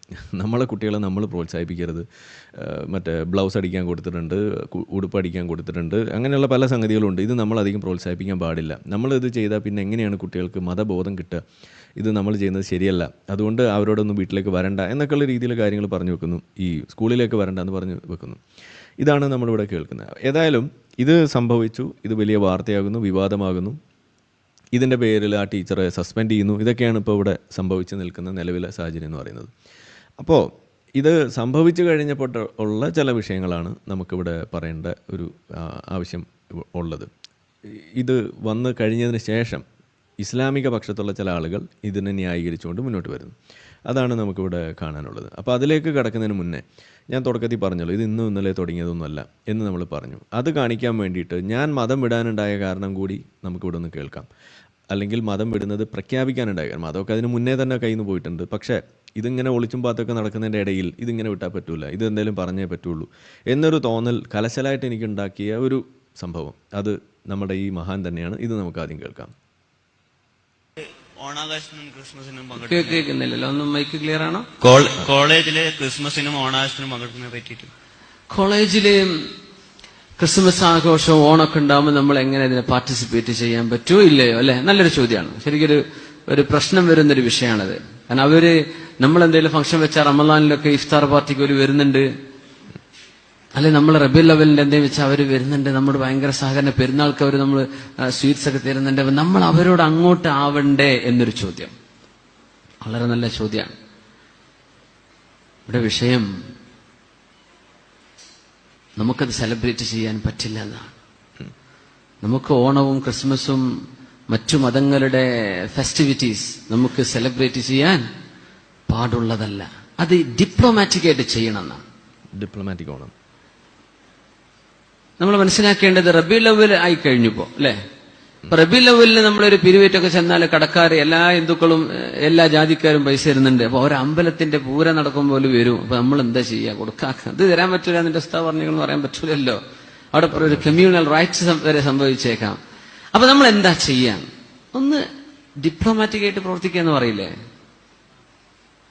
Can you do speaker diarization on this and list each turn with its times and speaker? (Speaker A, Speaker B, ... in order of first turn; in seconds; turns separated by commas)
Speaker A: 0.3-2.0, Speaker A: 2.6-11.4, Speaker A: 12.0-18.4, Speaker A: 19.0-23.8, Speaker A: 24.8-29.5, Speaker A: 30.2-30.5, Speaker A: 31.0-37.1, Speaker A: 38.0-39.6, Speaker A: 40.2-43.3, Speaker A: 43.9-54.2, Speaker A: 54.9-69.3, Speaker B: 71.2-73.0, Speaker C: 72.6-74.5, Speaker B: 74.6-77.7, Speaker C: 78.3-79.3, Speaker C: 80.2-92.1, Speaker C: 93.5-101.7, Speaker C: 102.8-103.7, Speaker C: 105.7-106.3, Speaker C: 109.0-110.9, Speaker C: 112.2-113.6, Speaker C: 114.3-118.0, Speaker C: 118.9-121.8, Speaker A: 122.3-123.1, Speaker C: 125.2-127.8, Speaker C: 128.5-139.6, Speaker C: 140.1-142.6, Speaker A: 140.3-140.7, Speaker C: 143.1-145.0, Speaker C: 145.6-147.3